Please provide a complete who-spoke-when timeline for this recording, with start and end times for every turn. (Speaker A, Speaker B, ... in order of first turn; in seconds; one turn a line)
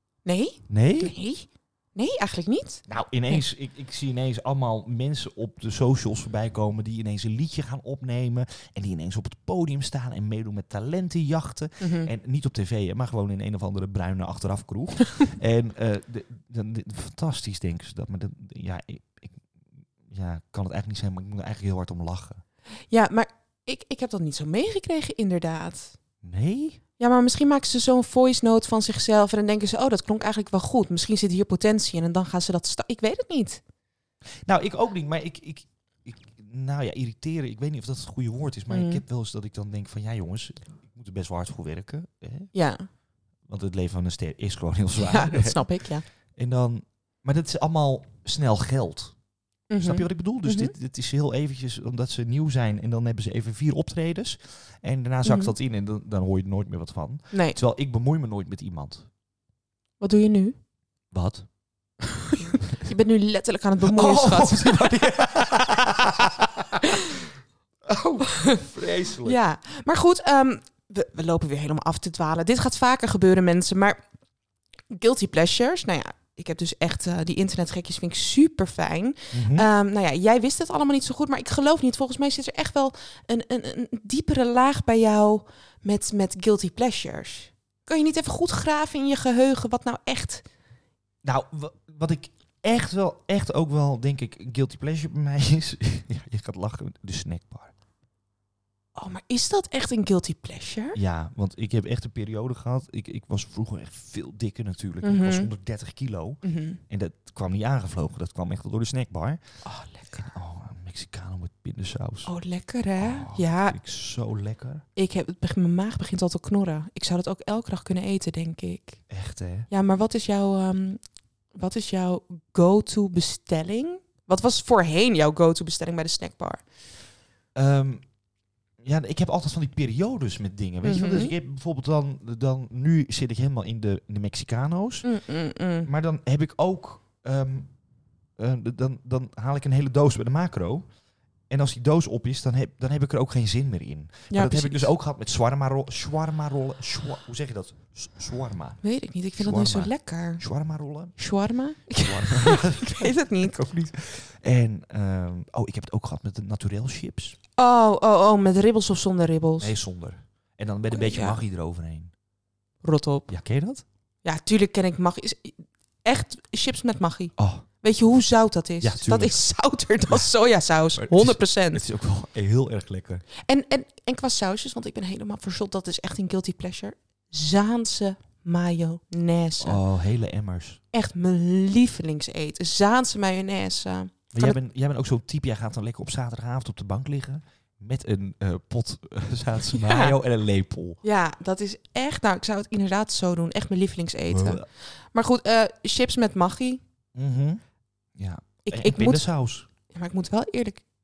Speaker A: 0.2-3.5
Speaker B: 0.7-1.1
Speaker B: 2.9-19.4
Speaker A: 11.8-12.1
Speaker B: 20.1-22.4
Speaker A: 22.9-26.0
Speaker B: 26.2-26.8
Speaker A: 27.0-33.6
Speaker B: 34.5-42.5
Speaker A: 38.7-39.0
Speaker A: 42.5-42.9
Speaker B: 43.5-45.6
Speaker A: 45.0-46.0
Speaker B: 46.4-49.1
Speaker A: 49.7-50.7
Speaker B: 49.8-59.1
Speaker A: 55.2-55.5
Speaker A: 57.3-57.6
Speaker A: 60.0-60.6
Speaker B: 61.1-61.5
Speaker A: 62.2-66.0
Speaker B: 63.8-67.2
Speaker A: 66.8-67.2
Speaker B: 67.8-69.4
Speaker A: 69.2-74.0
Speaker A: 74.9-90.4
Speaker B: 79.3-79.7
Speaker B: 91.2-97.7
Speaker A: 99.0-101.0
Speaker B: 101.0-109.4
Speaker A: 105.0-105.5
Speaker A: 106.4-106.8
Speaker A: 109.7-110.3
Speaker B: 110.1-112.3
Speaker A: 112.3-113.8
Speaker B: 113.0-114.8
Speaker A: 115.0-119.0
Speaker B: 119.1-119.7
Speaker A: 119.7-121.0
Speaker A: 121.5-126.6
Speaker B: 127.5-128.0
Speaker B: 128.8-135.1
Speaker A: 130.8-131.3
Speaker A: 135.0-135.9
Speaker B: 135.9-137.7
Speaker B: 138.4-140.8
Speaker B: 141.5-148.8
Speaker A: 144.3-144.9
Speaker A: 148.8-150.4
Speaker B: 149.4-151.2
Speaker A: 151.2-153.8
Speaker B: 152.0-157.4
Speaker A: 157.6-159.7
Speaker B: 159.6-162.1
Speaker A: 160.9-161.4
Speaker A: 162.8-163.3
Speaker B: 163.3-163.8
Speaker A: 164.2-171.8
Speaker B: 167.4-167.7
Speaker B: 168.8-169.4
Speaker B: 171.0-173.2
Speaker A: 173.5-179.8
Speaker B: 179.6-180.8
Speaker A: 180.9-184.6
Speaker B: 184.3-191.0
Speaker A: 189.7-190.2
Speaker A: 191.0-196.8
Speaker B: 194.3-194.7
Speaker B: 197.2-197.6
Speaker B: 198.2-199.7
Speaker A: 198.6-199.2
Speaker A: 199.9-200.8